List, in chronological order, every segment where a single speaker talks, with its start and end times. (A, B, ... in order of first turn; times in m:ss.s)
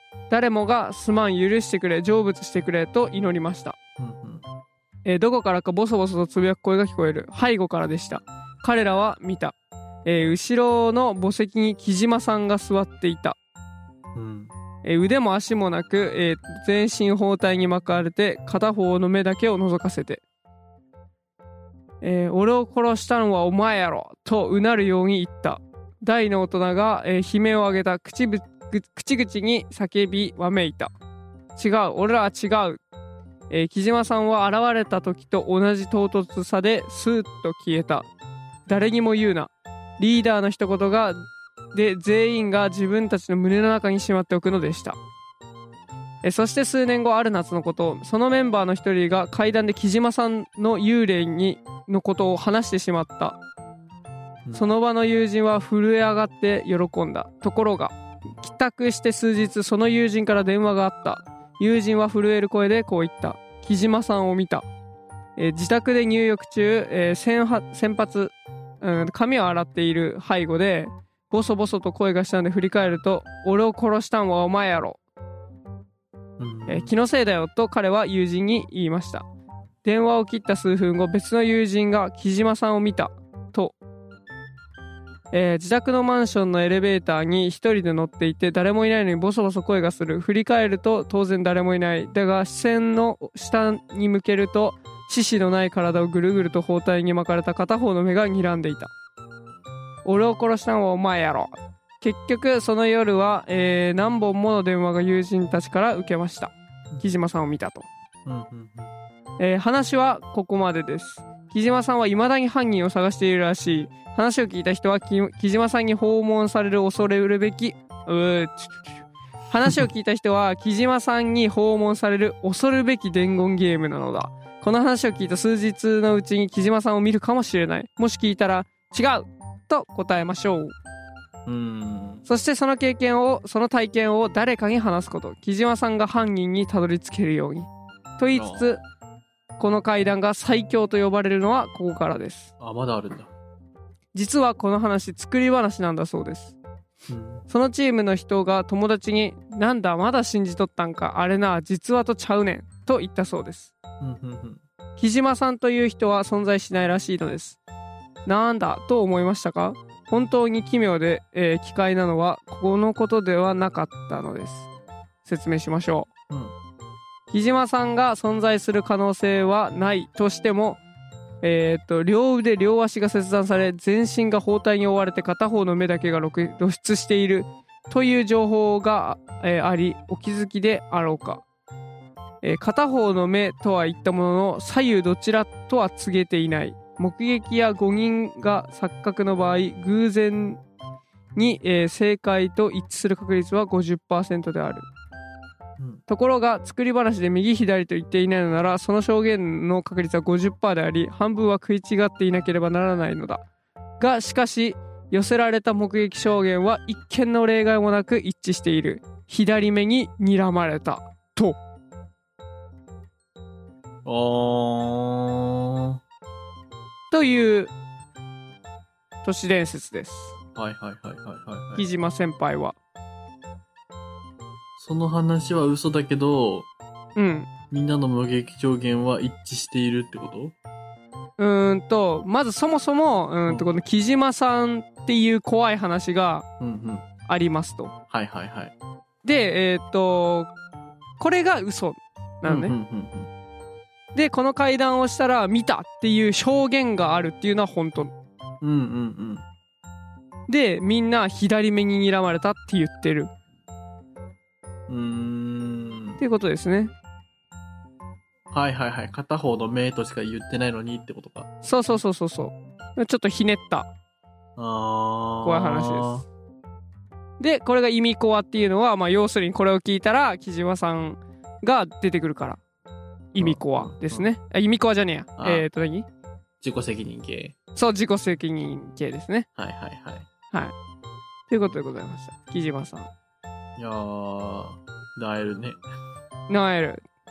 0:00.3-0:03.8 A
0:04.0-0:04.4 B
0:05.0-0:13.4 A
0:14.2-0:14.5 B
0:14.8-0:20.2 A
0:22.0-0:30.9 A
0:31.6-0:32.8 A
0:33.5-0:38.1 A
0:38.7-0:41.2 A
0:41.7-0:45.0 A
0:46.2-0:53.4 A
0:54.5-1:04.6 A
1:05.4-1:15.0 A
1:16.4-1:16.9 B
1:16.7-1:19.2 A
1:19.8-1:23.8 A
1:25.3-1:38.9 A
1:40.0-1:47.9 A
1:48.3-1:48.9 B
1:49.4-2:10.7 A
2:11.5-2:12.2 B
2:12.3-2:18.8 A
2:18.3-2:18.7 B
2:19.6-2:22.5 A
2:22.6-2:23.3 B
2:24.1-2:26.6 A
2:27.1-2:27.4 B
2:27.5-2:33.7 A
2:34.0-2:34.6 B
2:35.0-2:37.6 A
2:38.3-2:44.7 A
2:45.2-2:46.1 A
2:47.3-2:50.8 A
2:51.4-3:01.4 A
3:02.4-3:10.6 A
3:11.4-3:14.9 A
3:16.1-3:23.4 A
3:24.0-3:31.6 A
3:34.0-3:36.0 B
3:37.1-3:37.7 A
3:39.2-3:40.4 A
3:40.6-3:41.9 B
3:41.8-3:42.8 A
3:44.8-3:46.7 B
3:47.2-3:47.5 A
3:47.7-3:50.5 B
3:51.4-3:56.5 A
3:56.6-3:57.0 B
3:57.3-3:57.9 A
3:58.1-3:58.7 B
3:59.2-4:00.5 A
4:01.2-4:02.7 A
4:02.4-4:03.3 B
4:04.2-4:08.1 A
4:08.6-4:09.4 B
4:10.5-4:13.3 A
4:14.9-4:16.2 B
4:16.2-4:16.9 A
4:18.5-4:21.5 B
4:21.6-4:23.9 A
4:24.6-4:26.2 B
4:25.4-4:26.2 A
4:27.4-4:32.6 A
4:33.3-4:36.1 A
4:33.4-4:34.3 B
4:35.4-4:35.7 B
4:36.6-4:37.6 B
4:37.8-4:39.5 A
4:39.6-4:40.3 B
4:41.5-4:43.1 A
4:43.8-4:45.8 B
4:46.5-4:47.0 A